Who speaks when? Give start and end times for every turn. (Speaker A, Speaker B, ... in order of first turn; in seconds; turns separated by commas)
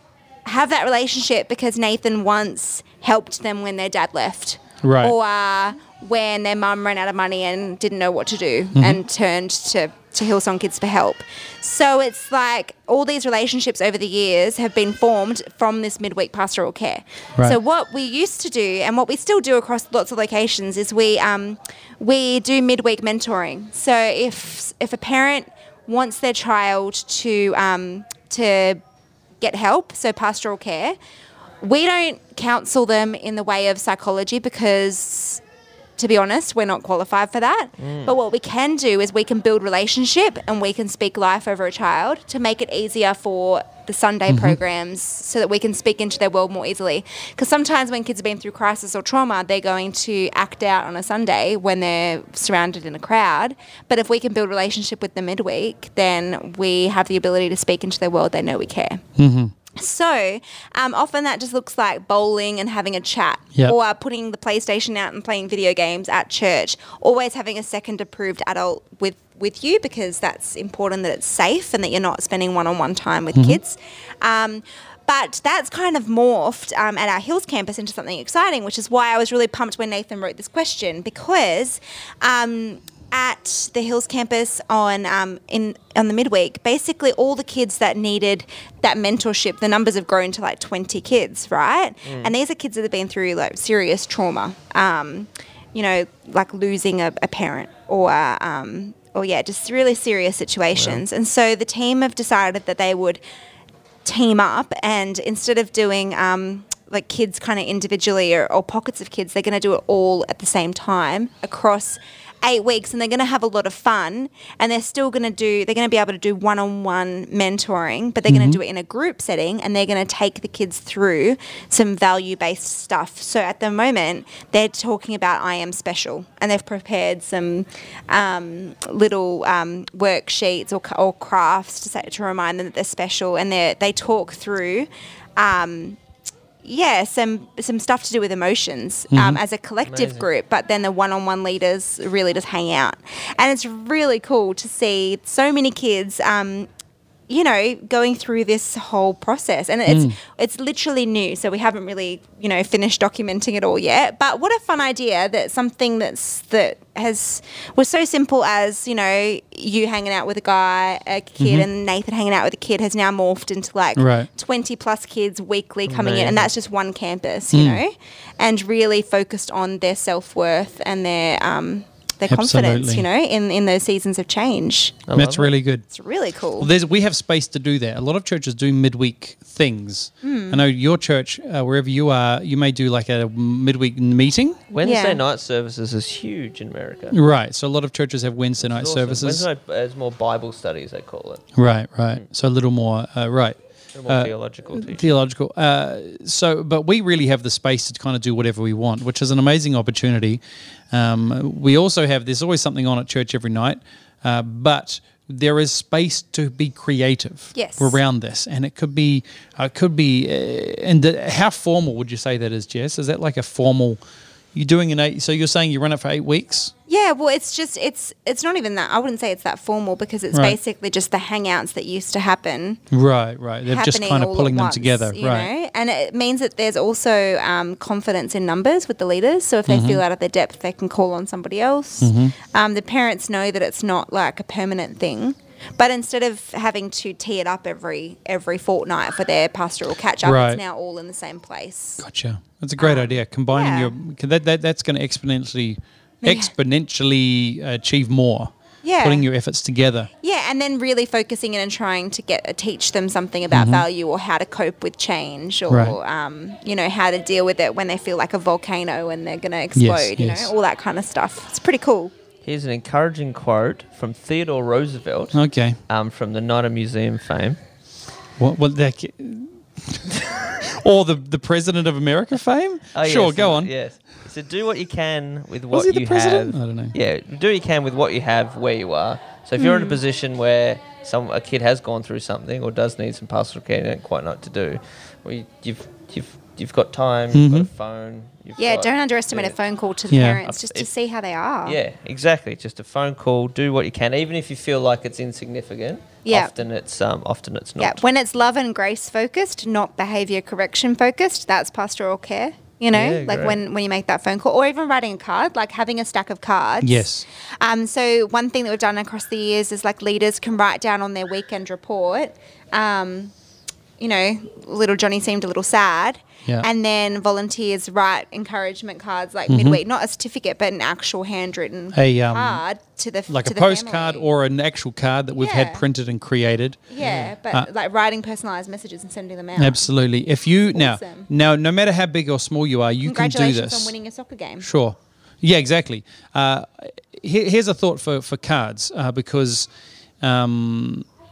Speaker A: 0.4-28.8, Speaker B: 4.8-5.1, Speaker B: 8.7-9.0, Speaker A: 29.4-31.0, Speaker A: 31.6-35.4, Speaker A: 36.0-59.0, Speaker C: 37.8-38.1, Speaker B: 44.3-44.6, Speaker B: 59.2-59.5, Speaker A: 59.7-103.2, Speaker B: 73.3-73.6, Speaker C: 92.0-92.3, Speaker C: 100.7-101.0, Speaker A: 104.0-136.0, Speaker B: 118.3-118.6, Speaker A: 136.6-146.7, Speaker B: 139.1-139.4, Speaker C: 139.8-140.3, Speaker A: 147.3-175.0, Speaker B: 149.9-150.2, Speaker B: 161.4-161.7, Speaker B: 164.0-164.3, Speaker C: 165.9-166.5, Speaker B: 167.5-167.8, Speaker B: 172.3-173.0, Speaker C: 175.1-175.5, Speaker B: 175.1-175.8, Speaker A: 175.9-176.7, Speaker B: 176.6-184.6, Speaker A: 180.2-180.6, Speaker C: 184.7-187.2, Speaker A: 184.8-185.2, Speaker B: 187.1-189.5, Speaker C: 188.6-191.5, Speaker B: 191.6-193.6, Speaker C: 193.9-195.1, Speaker B: 194.1-214.0, Speaker A: 207.5-208.0, Speaker B: 214.5-216.7, Speaker A: 216.9-222.8, Speaker B: 222.9-225.5, Speaker A: 223.7-242.0, Speaker B: 229.7-230.0, Speaker B: 232.0-232.3, Speaker B: 240.2-240.6, Speaker B: 242.0-250.1, Speaker A: 242.8-243.9, Speaker A: 246.2-246.5, Speaker A: 248.8-249.2, Speaker A: 250.2-262.1, Speaker B: 253.5-253.8, Speaker B: 255.7-256.0, Speaker B: 259.8-260.5, Speaker C: 262.4-265.4, Speaker B: 265.3-265.8, Speaker C: 265.9-267.6, Speaker B: 268.4-273.7, Speaker C: 272.9-289.6, Speaker B: 275.7-276.9, Speaker A: 279.6-280.0, Speaker B: 287.3-287.7, Speaker A: 288.6-291.8, Speaker B: 290.1-290.4, Speaker C: 290.4-290.9, Speaker C: 291.6-298.0, Speaker A: 296.2-296.5, Speaker A: 297.8-307.1, Speaker C: 302.9-303.6, Speaker B: 306.8-307.2, Speaker A: 307.6-313.3, Speaker A: 314.0-324.3, Speaker B: 319.5-319.8, Speaker B: 321.9-322.6, Speaker B: 323.3-327.7, Speaker A: 325.4-325.8, Speaker A: 326.9-329.9, Speaker C: 327.0-327.3, Speaker B: 329.6-333.9, Speaker A: 330.7-331.3, Speaker A: 333.0-334.7, Speaker B: 334.6-339.7, Speaker B: 340.2-341.1